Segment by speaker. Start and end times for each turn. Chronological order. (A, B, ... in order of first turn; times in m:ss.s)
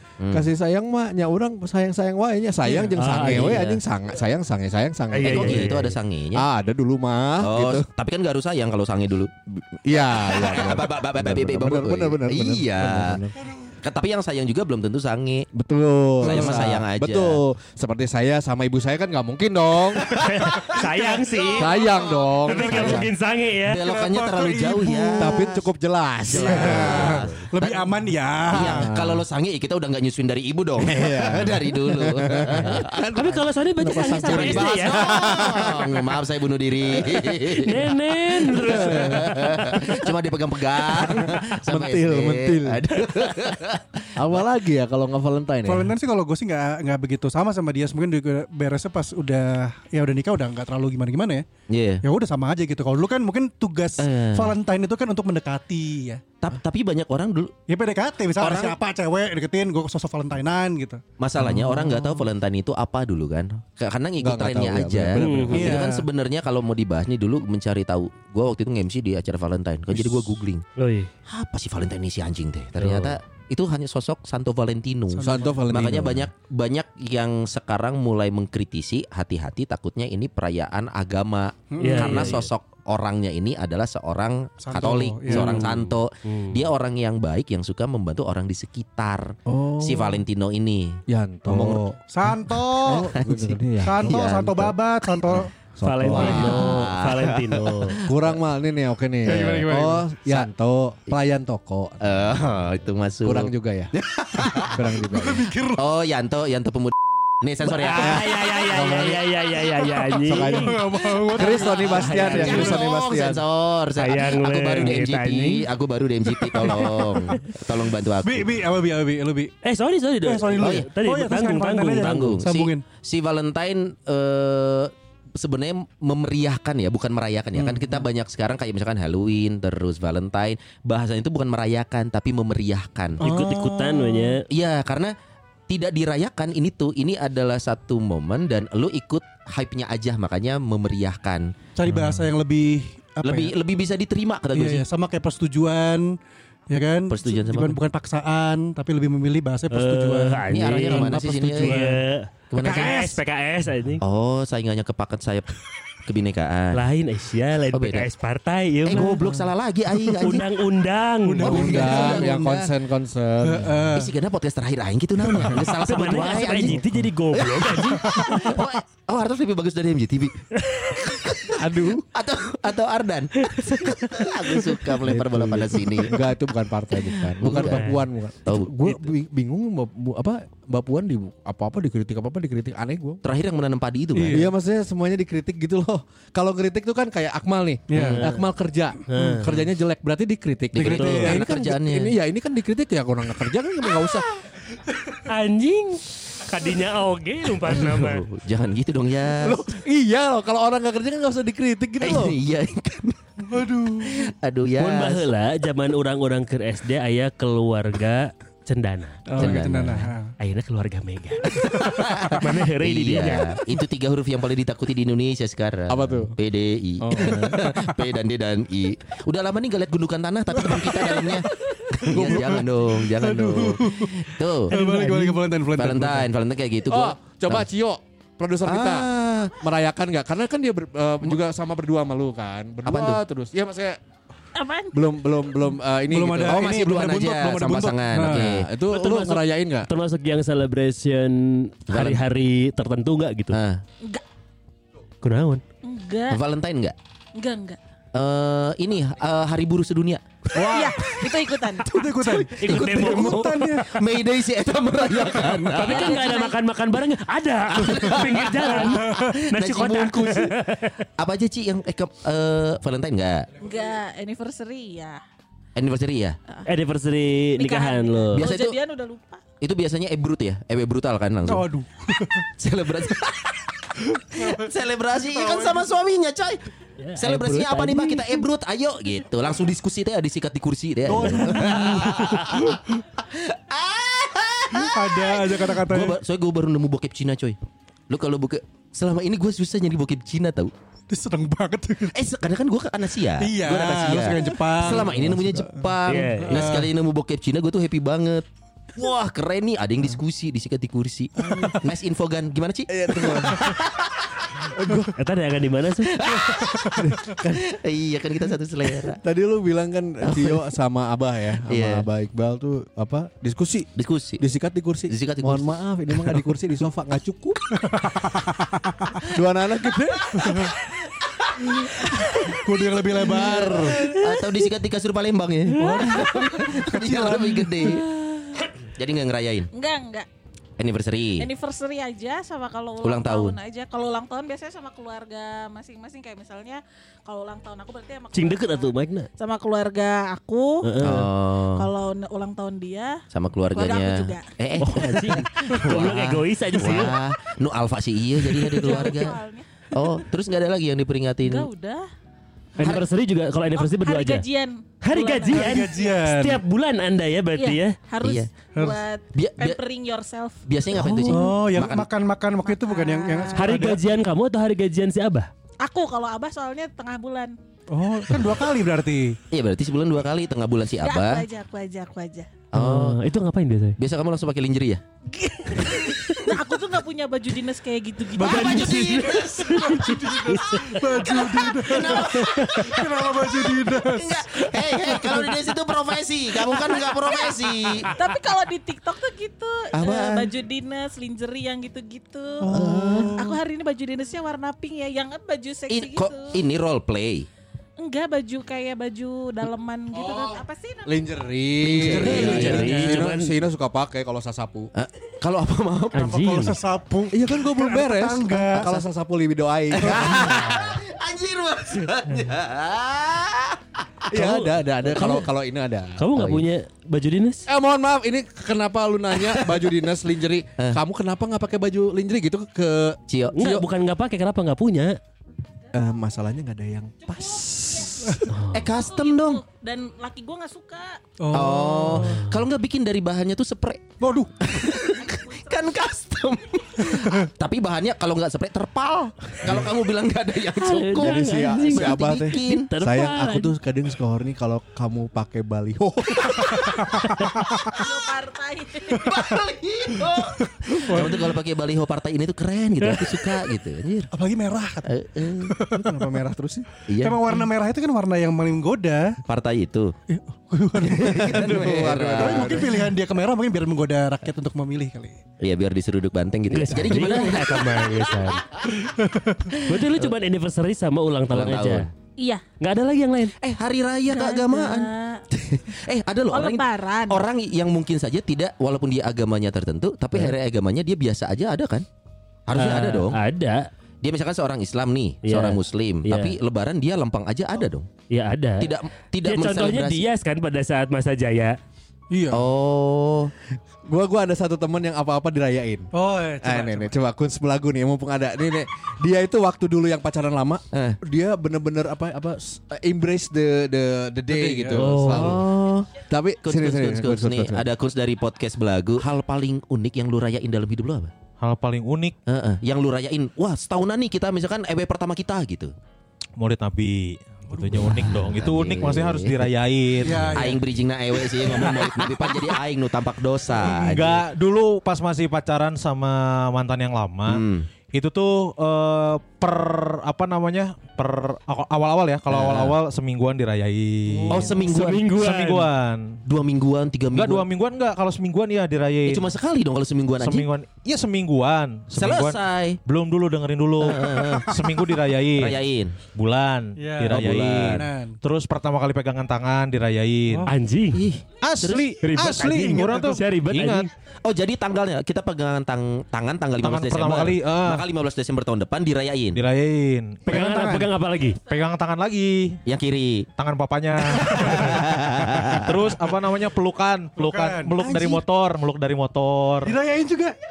0:00.2-0:00.5 A
0:00.3-0:05.8 B
0:02.6-0:02.9 C
0:03.0-0:03.8 D
0:03.1-0:03.8 A
0:05.1-0:05.9 D
0:05.2-0:06.4 A
0:06.3-0:07.9 B
0:07.4-0:09.3 A
0:09.6-0:13.4 B
0:09.9-0:13.2 A
0:13.8-0:15.5 A
0:15.5-0:20.2 B
0:16.2-0:17.4 A
0:16.3-0:16.7 C
0:20.1-0:23.8 D
0:20.8-0:23.1 C
0:21.5-0:23.1 B
0:22.7-0:23.0 A
0:23.7-0:25.7 A
0:23.7-0:25.5 C
0:25.2-0:27.3 B
0:26.2-0:33.1 A
0:26.3-0:28.9 C
0:28.7-0:29.2 B
0:30.8-0:36.2 B
0:33.1-0:35.1 D
0:34.2-0:37.9 A
0:36.8-0:37.5 B
0:37.5-0:39.3 D
0:38.4-0:40.1 B
0:38.5-0:44.2 A
0:40.8-0:43.2 B
0:44.1-0:45.9 B
0:45.6-0:51.4 C
0:51.7-0:52.0 A
0:52.0-0:56.2 C
0:54.0-0:54.6 A
0:56.4-0:57.5 A
0:57.7-1:01.0 C
0:58.4-0:58.8 A
1:01.2-1:10.6 A
1:01.4-1:02.1 B
1:04.2-1:05.8 B
1:05.2-1:05.8 D
1:05.5-1:06.0 C
1:10.8-1:11.1 D
1:11.3-1:31.8 A
1:12.8-1:13.2 D
1:15.1-1:15.9 C
1:15.2-1:16.3 B
1:21.7-1:22.4 C
1:21.8-1:22.5 D
1:24.6-1:25.7 C
1:25.3-1:26.6 D
1:29.4-1:30.2 B
1:31.1-1:34.2 B
1:32.1-1:33.1 C
1:32.8-1:34.7 A
1:33.8-1:35.5 C
1:35.3-1:36.7 B
1:35.8-1:38.0 D
1:36.1-1:36.7 C
1:36.1-1:38.4 A
1:38.0-1:42.4 B
1:39.2-1:40.0 C
1:42.0-1:44.8 A
1:43.2-1:43.9 B
1:44.6-1:45.5 B
1:45.1-1:45.8 C
1:45.8-1:48.4 A
1:47.6-1:50.7 D
1:48.0-1:49.3 B
1:49.9-1:52.8 C
1:50.2-1:53.4 B
1:51.2-1:58.5 A
1:51.7-1:52.7 D
1:54.0-1:55.7 D
1:56.3-1:57.5 C
1:58.2-1:59.5 C
1:59.6-2:02.4 D
2:00.2-2:02.8 C
2:00.6-2:00.9 A
2:02.0-2:13.2 A
2:07.6-2:08.0 C
2:13.2-2:14.4 C
2:13.2-2:14.4 D
2:14.5-2:15.1 A
2:15.7-2:21.5 A
2:21.8-2:23.5 C
2:23.2-2:24.8 A
2:24.5-2:26.2 C
2:26.7-2:32.0 C
2:27.1-2:27.8 A
2:29.7-2:34.0 D
2:30.5-2:31.8 A
2:32.5-2:33.0 A
2:32.6-2:33.2 C
2:34.0-2:35.5 A
2:36.0-2:36.8 A
2:36.7-2:39.2 D
2:37.7-2:38.0 A
2:38.8-2:40.5 A
2:39.0-2:39.5 C
2:40.1-2:41.6 D
2:41.2-2:42.5 C
2:41.4-2:42.7 A
2:41.4-2:43.9 B
2:43.4-2:44.1 C
2:43.9-2:56.2 A
2:45.6-2:48.5 D
2:48.0-2:48.6 C
2:51.6-2:52.0 B
2:53.4-2:53.7 D
2:55.0-3:03.2 B
2:57.4-2:57.9 A
2:57.6-2:58.0 D
2:58.4-2:59.0 A
3:03.2-3:04.4 A
3:04.1-3:04.5 C
3:04.3-3:14.2 B
3:07.9-3:08.3 C
3:08.0-3:08.3 D
3:09.1-3:09.5 D
3:10.7-3:12.1 A
3:10.8-3:11.4 C
3:10.8-3:11.2 D
3:15.2-3:18.2 D
3:17.7-3:19.6 A
3:19.4-3:22.4 B
3:22.0-3:23.4 A
3:23.5-3:24.3 C
3:24.0-3:25.3 A
3:24.8-3:29.3 D
3:29.3-3:30.3 C
3:29.3-3:29.6 B
3:29.4-3:30.1 A
3:30.4-3:33.6 D
3:31.6-3:44.7 A
3:35.9-3:36.3 B
3:37.0-3:37.8 B
3:40.6-3:46.3 C
3:42.1-3:42.6 B
3:45.7-3:47.6 A
3:46.9-3:54.0 B
3:48.6-3:49.5 A
3:52.8-3:53.2 A
3:54.5-3:54.9 E
3:54.9-3:57.0 B
3:56.1-3:58.5 C
3:56.5-3:58.7 A
3:58.3-3:59.9 B
3:58.9-4:03.6 D
4:01.9-4:02.2 A
4:03.5-4:03.8 A
4:05.2-4:05.6 D
4:05.8-4:06.4 E
4:06.3-4:07.0 A
4:07.4-4:07.8 E
4:08.1-4:11.1 A
4:10.5-4:10.9 C
4:10.6-4:11.9 E
4:11.8-4:13.9 C
4:12.0-4:16.2 A
4:12.6-4:13.7 D
4:15.3-4:15.7 C
4:15.7-4:21.0 D
4:15.8-4:16.6 E
4:17.7-4:20.5 A
4:18.7-4:19.3 C
4:21.2-4:23.5 A
4:23.6-4:25.2 E
4:25.8-4:26.4 A
4:26.6-4:28.5 D
4:27.6-4:29.4 E
4:28.3-4:28.8 A
4:29.6-4:31.7 A
4:31.4-4:32.5 C
4:32.6-4:36.6 A
4:34.3-4:34.7 C
4:35.3-4:35.9 C
4:37.0-4:38.4 D
4:37.2-4:47.6 A
4:41.0-4:42.9 C
4:44.7-4:46.2 C
4:48.1-4:50.7 A
4:51.1-4:52.2 C
4:52.1-5:04.3 A
4:53.4-4:55.6 C
4:56.0-4:56.7 D
4:56.5-4:56.9 C
5:01.4-5:01.8 B
5:02.9-5:03.8 B
5:04.7-5:05.1 B
5:05.2-5:06.1 D
5:06.1-5:09.2 A
5:07.0-5:07.6 B
5:09.1-5:17.6 B
5:10.2-5:10.6 A
5:11.7-5:12.1 A
5:14.0-5:14.4 A
5:15.1-5:15.7 A
5:17.9-5:19.1 C
5:19.3-5:20.7 B
5:20.4-5:20.7 C
5:22.0-5:24.2 C
5:23.2-5:28.1 A
5:23.3-5:23.8 B
5:25.7-5:28.1 C
5:28.8-5:29.7 A
5:29.7-5:30.3 E
5:30.8-5:31.5 A
5:31.4-5:41.0 E
5:33.0-5:33.6 A
5:38.3-5:39.3 D
5:40.8-5:41.3 D
5:41.0-5:41.9 A
5:41.8-5:43.2 E
5:43.3-5:49.4 A
5:43.7-5:44.5 E
5:44.8-5:47.2 D
5:48.7-5:49.6 E
5:49.9-5:51.7 A
5:51.4-5:52.0 E
5:52.8-5:54.4 D
5:53.7-5:56.2 E
5:55.0-5:58.0 D
5:55.5-5:56.6 C
5:57.6-6:00.6 E
5:58.2-5:58.5 A
5:59.3-5:59.8 A
6:00.7-6:02.1 A
6:01.0-6:01.3 D
6:01.2-6:04.1 C
6:02.6-6:03.9 E
6:03.5-6:05.5 D
6:05.8-6:07.5 E
6:07.9-6:09.4 C
6:09.5-6:11.4 A
6:11.0-6:12.5 E
6:12.7-6:13.2 A
6:12.7-6:14.0 D
6:14.0-6:15.0 A
6:15.3-6:19.6 E
6:18.3-6:25.5 C
6:18.4-6:20.8 D
6:18.5-6:19.9 A
6:21.1-6:28.1 A
6:22.4-6:22.9 D
6:26.8-6:32.7 E
6:29.9-6:30.5 A
6:32.6-6:33.3 B
6:32.7-6:33.3 A
6:32.7-6:33.4 C
6:33.4-6:36.6 E
6:35.9-6:37.5 A
6:38.0-6:41.3 E
6:40.1-6:44.9 B
6:41.8-6:43.1 A
6:41.9-6:43.2 C
6:42.1-6:43.5 D
6:44.9-6:46.6 A
6:46.1-6:46.8 D
6:46.2-6:49.0 C
6:47.3-6:50.9 B
6:50.0-6:53.8 A
6:54.3-6:56.6 B
6:54.3-6:55.5 D
6:56.2-6:57.6 D
6:57.7-7:03.8 B
6:59.4-6:59.9 A
7:03.3-7:03.8 A
7:03.5-7:05.2 D
7:05.9-7:08.4 B
7:08.5-7:08.9 D
7:08.7-7:09.6 A
7:08.9-7:11.2 E
7:11.4-7:12.4 C
7:11.5-7:14.1 A
7:12.1-7:12.6 D
7:14.2-7:14.5 C
7:14.6-7:22.9 A
7:20.8-7:23.7 D
7:21.2-7:26.8 B
7:26.4-7:27.0 A
7:26.7-7:28.0 C
7:27.9-7:29.3 E
7:29.1-7:34.3 A
7:29.2-7:29.5 C
7:30.3-7:31.6 C
7:33.0-7:33.4 D
7:34.3-7:39.4 C
7:35.0-7:35.8 A
7:37.1-7:37.6 A
7:39.5-7:40.1 A
7:40.3-7:45.4 C
7:41.0-7:43.0 A
7:41.2-7:42.9 B
7:45.6-7:47.8 A
7:46.7-7:48.8 D
7:49.2-7:49.6 C
7:49.8-7:52.1 D
7:50.0-7:50.3 A
7:51.5-7:52.1 A
7:52.8-7:53.5 D
7:53.6-8:02.0 A
7:54.2-7:55.4 E
7:56.5-7:57.5 E
8:02.7-8:03.4 A
8:02.7-8:03.9 D
8:04.2-8:08.1 A
8:05.4-8:06.6 D
8:08.3-8:08.9 D
8:08.8-8:10.2 A
8:09.4-8:11.8 D
8:12.3-8:12.6 C
8:12.5-8:13.5 A
8:14.1-8:16.1 B
8:16.1-8:17.1 C
8:16.6-8:27.9 B
8:20.9-8:21.2 A
8:24.6-8:25.0 F
8:24.9-8:26.1 A
8:24.9-8:25.6 D
8:26.6-8:31.3 A
8:31.6-8:32.4 F
8:32.5-8:35.9 A
8:36.6-8:40.7 F
8:37.7-8:38.0 C
8:38.1-8:39.7 A
8:40.2-8:40.8 C
8:40.5-8:44.4 A
8:41.7-8:42.3 F
8:43.8-8:54.7 F
8:47.5-8:47.9 A
8:52.5-8:52.9 A
8:54.3-8:54.9 C
8:54.5-8:55.2 A
8:54.5-8:55.9 D
8:55.3-8:56.4 F
8:56.4-8:57.7 A
8:57.3-8:59.5 F
8:59.2-9:00.7 A
9:00.4-9:05.8 F
9:02.2-9:03.0 A
9:04.0-9:06.2 A
9:06.3-9:10.7 F
9:07.0-9:08.4 C
9:07.3-9:08.1 A
9:10.7-9:11.3 D
9:11.1-9:12.1 A
9:11.6-9:14.1 F
9:12.2-9:14.1 D
9:12.7-9:13.2 C
9:14.4-9:19.6 A
9:16.8-9:18.0 F
9:19.5-9:20.5 F
9:20.5-9:21.6 D
9:20.5-9:21.1 C
9:21.6-9:22.8 F
9:22.8-9:23.5 A
9:23.6-9:30.0 F
9:24.3-9:25.9 A
9:27.4-9:28.0 C
9:28.0-9:28.4 A
9:29.8-9:30.6 C